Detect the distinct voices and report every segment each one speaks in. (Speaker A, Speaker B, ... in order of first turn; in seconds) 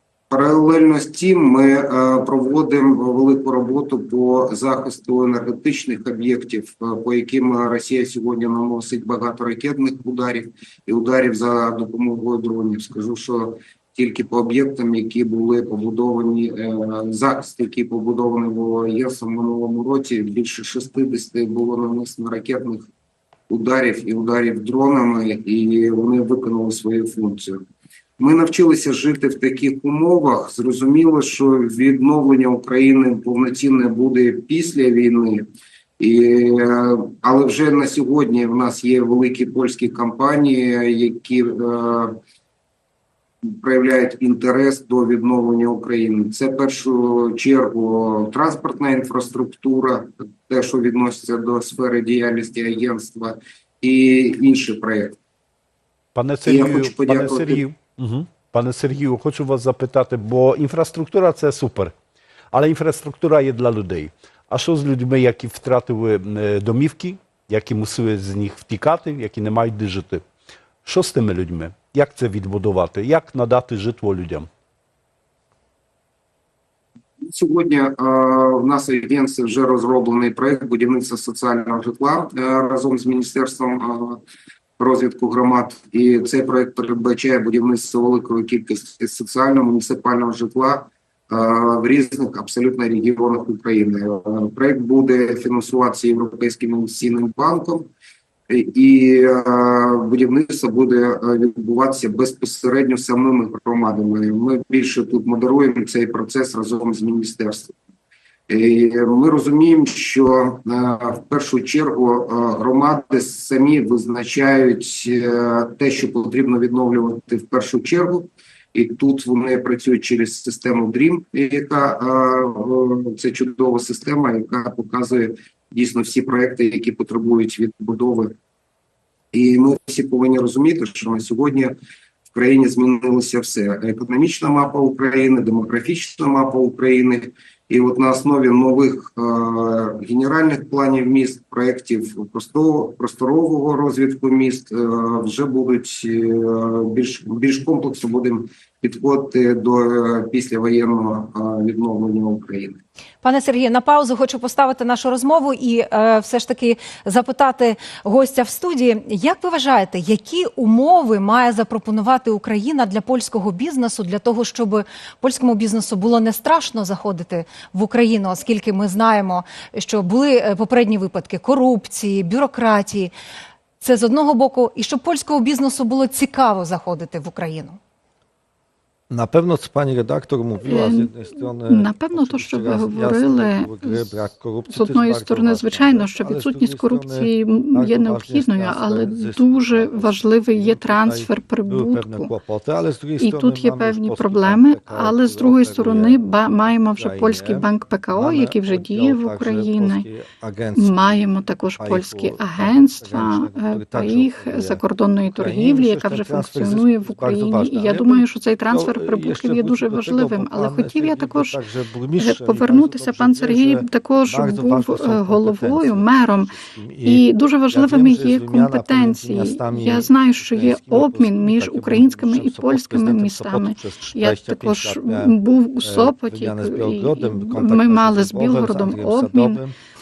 Speaker A: 0.3-22.9, 23.5-27.6, 28.2-35.4, 36.0-42.1, 43.5-55.1, 56.4-57.6, 77.3-84.2, 84.8-97.9, 98.5-107.7, 108.5-128.3, 129.3-131.7, 132.3-152.8
Speaker B: 56.1-61.9, 62.5-70.2, 70.8-74.5
Speaker C: 153.2-173.1, 173.8-177.8
Speaker D: 179.1-201.0, 201.8-229.7
Speaker E: 180.7-184.1, 184.7-192.3, 193.2-200.1, 200.8-211.6, 212.2-229.6